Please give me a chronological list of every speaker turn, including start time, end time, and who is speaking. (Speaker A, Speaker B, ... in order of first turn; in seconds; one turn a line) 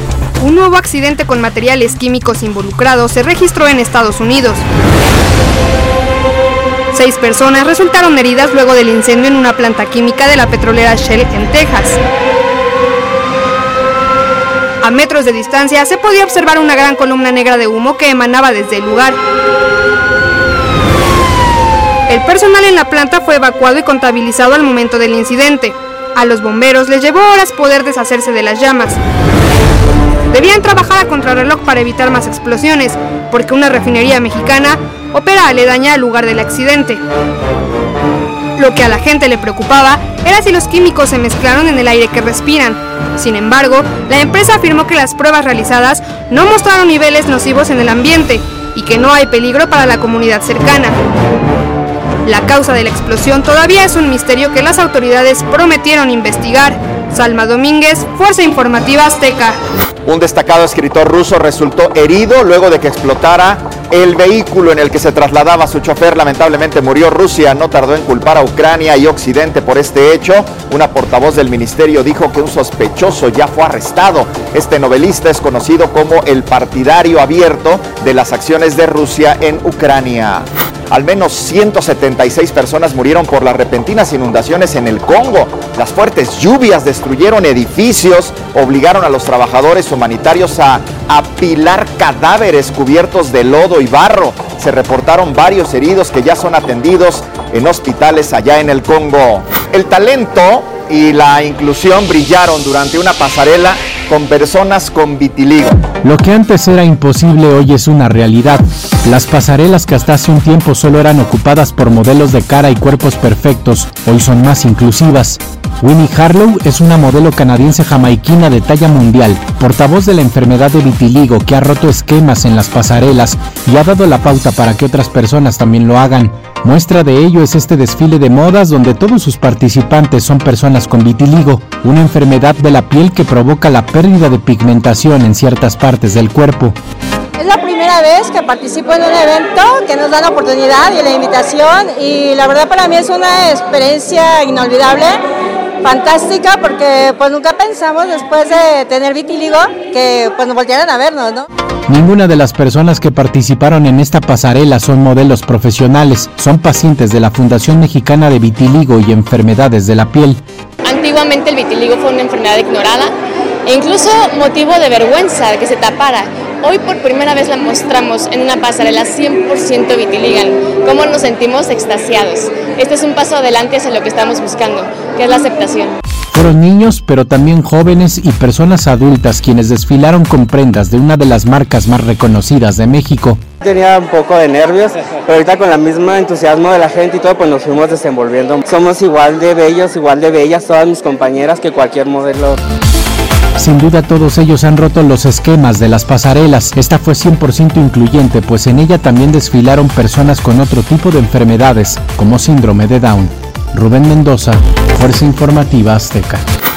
Speaker A: 0.4-4.6
Speaker A: 6.9-12.0
Speaker A: 14.8-19.2
Speaker A: 22.1-29.0
Speaker A: 30.3-37.0
Speaker A: 38.6-51.0
Speaker A: 52.2-59.6
Speaker B: 60.0-105.8
Speaker C: 106.0-136.8
Speaker D: 137.4-145.2
Speaker D: 145.8-151.4
Speaker C: 151.9-160.4
Speaker E: 160.8-163.1
Speaker E: 163.7-176.0
Speaker C: 176.3-183.4
Speaker F: 183.6-192.6
Speaker C: 193.6-206.4